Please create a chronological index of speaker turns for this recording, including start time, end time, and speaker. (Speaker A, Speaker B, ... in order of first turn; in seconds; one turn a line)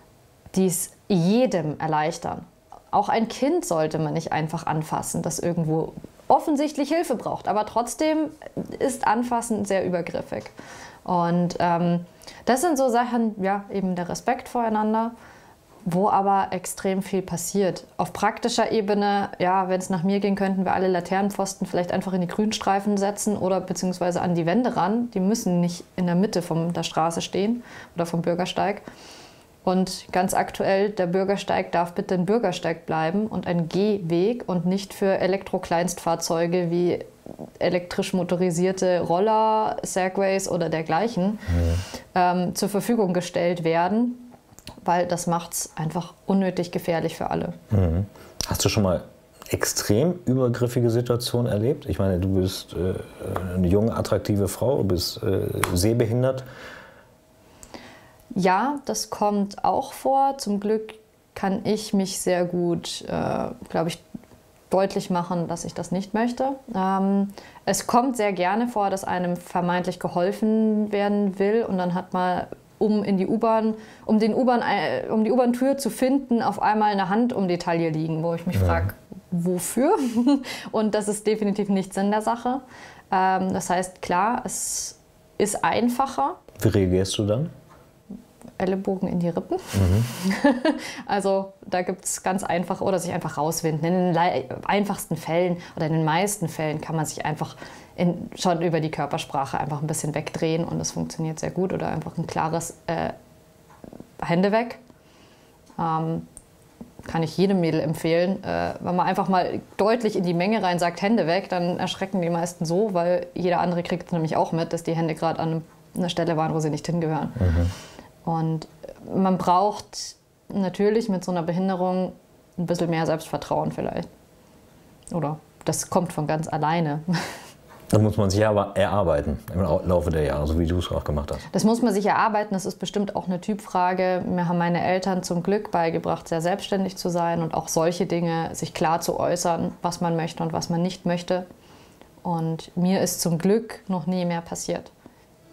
Speaker A: 0.5-15.1
Speaker A: 15.8-28.8
Speaker A: 29.6-41.4
Speaker B: 41.5-41.8
Speaker A: 42.1-44.3
Speaker A: 44.8-47.6
Speaker B: 47.7-56.5
Speaker A: 58.4-64.0
Speaker A: 64.7-86.4
Speaker B: 78.5-78.9
Speaker B: 86.6-87.5
Speaker A: 88.6-103.2
Speaker B: 89.7-90.1
Speaker A: 104.2-104.8
Speaker A: 105.8-106.3
Speaker A: 107.0-117.4
Speaker B: 117.4-117.7
Speaker A: 118.2-124.1
Speaker A: 125.1-127.4
Speaker B: 127.9-131.4
Speaker A: 131.5-141.5
Speaker A: 142.2-144.9